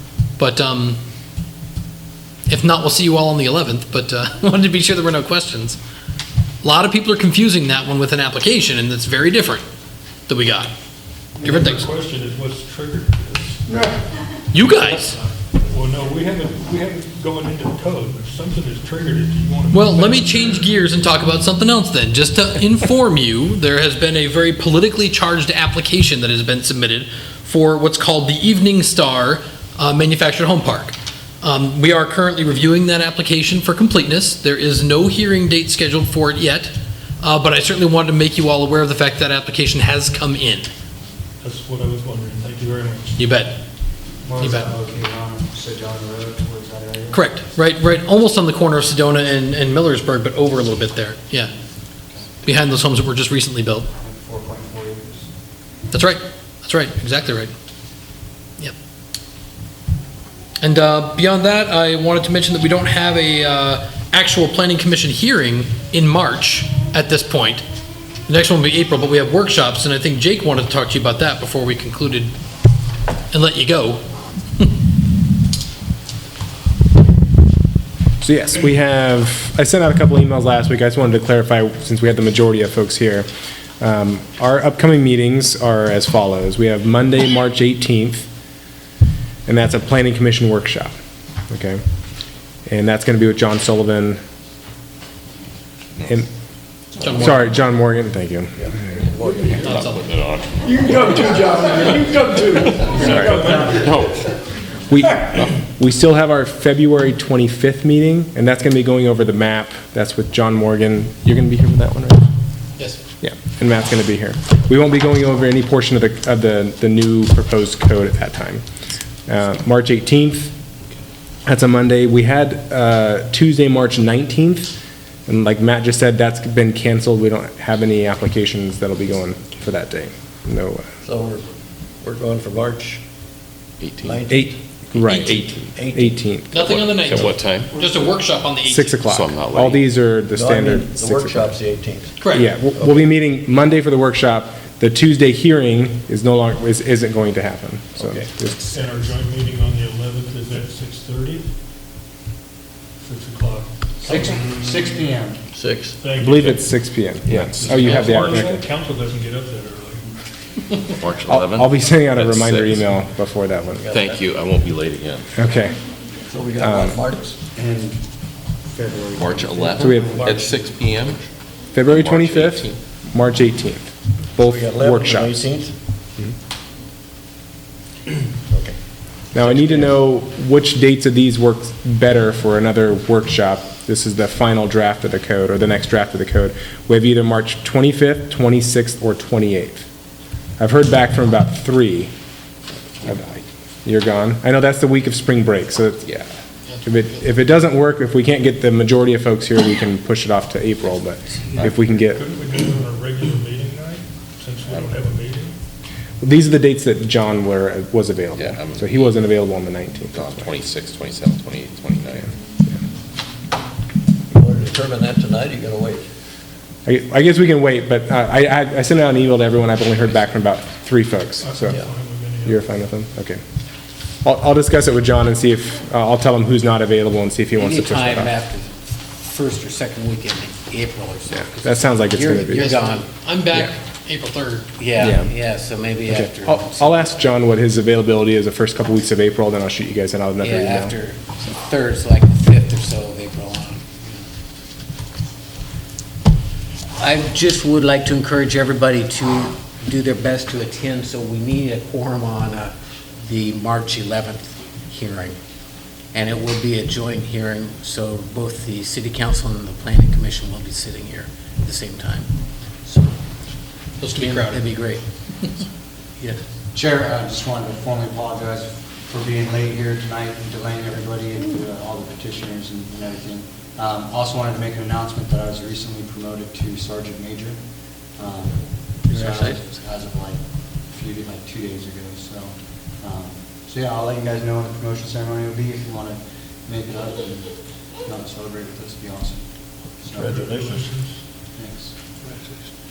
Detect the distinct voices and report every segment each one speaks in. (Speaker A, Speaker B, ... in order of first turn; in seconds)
Speaker A: 0.4-1.0, 2.5-5.8, 6.6-9.6, 10.3-10.7, 11.4-11.9, 14.5-15.2, 19.7-40.7, 43.2-43.6, 44.4-44.7, 47.1-51.5, 52.4-53.9, 55.9-57.5, 60.6-67.7, 68.3-72.3, 73.3-74.0, 97.0-97.4, 99.6-100.1, 135.0-135.3, 136.5-139.0, 142.2-142.5, 196.7-197.2, 232.5-234.7, 264.0-264.9
Speaker B: 11.4-14.0, 14.7-20.7, 41.4-43.2, 99.2-99.6, 100.6-104.0, 148.7-151.5, 153.0-155.1, 156.0-160.1, 202.0-205.6, 221.4-222.6, 290.0-291.2, 292.2-292.6
Speaker C: 44.2-47.2, 54.0-55.3, 101.4-101.9, 103.4-103.8, 154.0-155.4, 167.3-168.0, 168.6-170.6, 266.7-277.6, 278.1-289.5, 290.0-290.4, 291.6-291.9
Speaker D: 78.2-83.3, 83.8-88.3, 89.5-91.0, 91.5-91.8, 92.7-94.2, 97.2-98.5, 104.9-112.3, 113.2-118.6, 119.3-120.5, 121.5-124.7, 125.3-130.8, 134.3-137.2, 138.6-141.6, 142.3-148.8, 156.1-158.6, 161.2-163.8, 165.3-165.8, 166.6-167.0, 169.8-170.2, 171.7-175.4, 179.3-189.8, 190.6-192.1, 193.0-196.2, 196.8-202.2, 206.2-210.5, 216.8-221.8, 222.4-223.4, 224.2-228.3, 231.3-232.7, 235.0-235.3, 236.1-240.9
Speaker E: 98.6-99.6, 131.0-131.4, 132.0-133.0, 134.0-134.6, 135.7-136.2, 140.3-142.2, 142.8-143.1, 148.0-148.5, 155.5-156.0, 163.8-164.2, 166.3-167.3, 170.2-170.5, 174.4-175.7, 178.5-178.8, 179.4-179.9, 214.3-216.1, 279.1-279.6, 290.1-290.9
Speaker F: 99.6-104.3, 133.8-134.2, 135.1-135.6, 136.5-137.7, 139.0-139.9, 157.7-158.4, 160.9-162.9, 163.9-165.3, 169.1-171.2, 171.9-172.8, 201.5-201.9, 204.7-204.9, 208.3-209.2, 210.1-212.3
Speaker G: 227.6-233.1, 234.8-237.2, 240.4-244.2, 247.0-255.4, 256.1-262.3, 262.8-263.2, 264.1-265.0